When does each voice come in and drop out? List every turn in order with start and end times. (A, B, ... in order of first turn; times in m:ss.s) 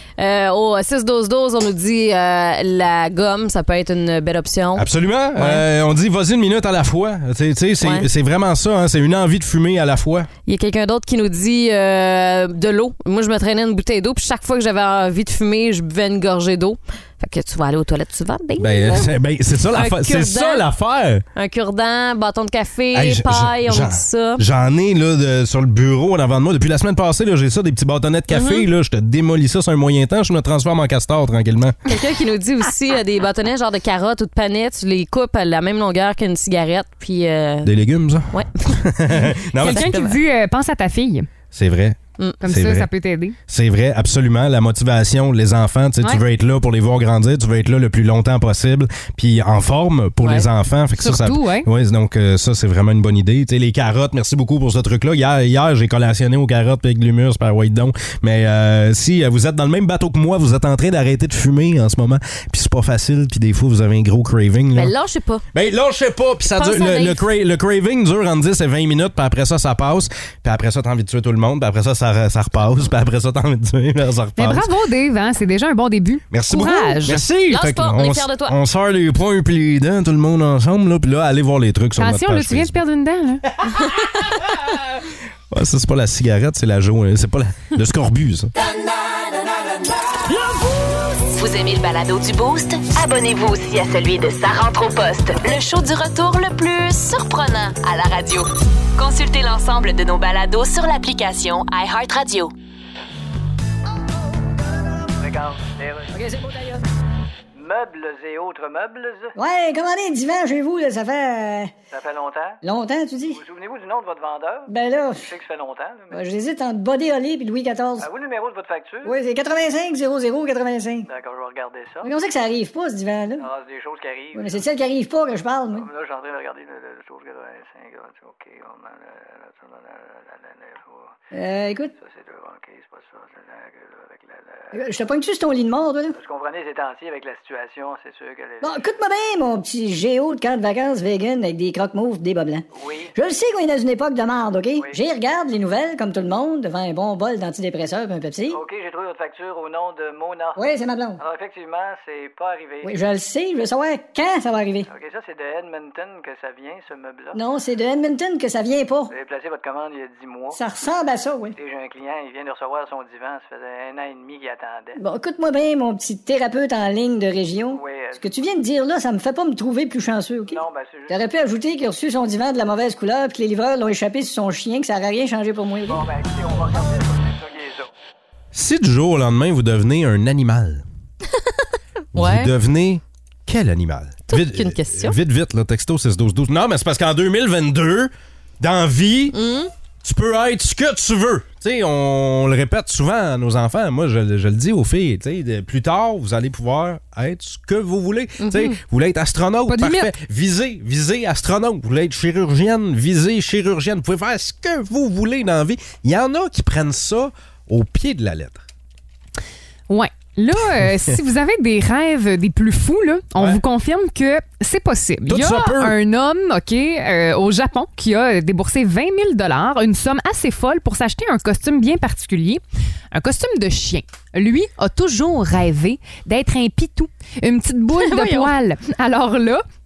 0:00.2-0:05.6 A
0:04.8-0:10.3 B
0:07.8-0:08.1 A
0:10.5-0:19.1 A
0:18.6-0:21.2 B
0:19.7-0:20.6 A
0:21.4-0:24.4 A
0:22.9-0:31.8 B
0:28.3-0:28.6 A
0:31.9-0:37.7 A
0:37.6-0:40.0 B
0:38.3-0:38.8 A
0:39.6-0:41.3 C
0:39.6-0:40.2 A
0:41.5-0:42.9 B
0:42.4-0:43.4 C
0:43.5-1:04.9 B
0:51.0-0:51.7 C
1:04.8-1:05.4 A
1:05.5-1:14.7 B
1:06.5-1:07.2 A
1:14.4-1:17.2 C
1:16.3-1:22.8 B
1:17.5-1:18.6 A
1:22.0-1:23.5 C
1:25.5-1:28.5 B
1:31.3-1:42.5 D
1:45.2-1:46.1 E
1:46.1-1:46.8 F
1:47.6-1:49.4 E
1:49.4-1:51.7 F
1:51.9-1:52.6 E
1:52.6-1:53.4 F
1:53.3-1:56.2 E
1:54.7-1:55.3 F
1:56.1-1:58.1 F
1:58.0-1:59.2 E
1:59.0-2:01.1 F
2:01.1-2:02.1 E
2:02.0-2:03.5 F
2:03.4-2:04.6 E
2:04.3-2:05.9 F
2:05.7-2:11.1 E
2:11.3-2:11.9 F
2:12.0-2:14.8 E
2:14.7-2:16.2 F
2:16.2-2:18.9 E
2:18.6-2:28.6 F
2:22.7-2:23.1 E
2:28.5-2:30.6 E
2:30.6-2:31.2 F
2:31.2-2:33.0 E
2:32.8-2:34.9 F
2:34.9-2:37.4 E
2:37.4-2:39.1 F
2:39.1-2:40.6 E
2:40.6-2:41.6 F
2:41.6-2:45.0 E
2:45.0-2:56.0 F
2:47.7-2:48.3 E
2:50.5-2:51.2 E
2:55.9-2:57.9 E
2:58.5-3:00.8 B
3:02.1-3:02.5 A
3:02.1-3:09.4 B
3:04.3-3:05.2 A
3:09.3-3:09.7 A
3:10.0-3:28.6 B
3:18.4-3:18.8 A
3:19.7-3:20.1 C
3:29.9-3:49.6 C
3:30.8-3:31.1 B
3:35.3-3:36.0 B
3:48.0-3:48.5 A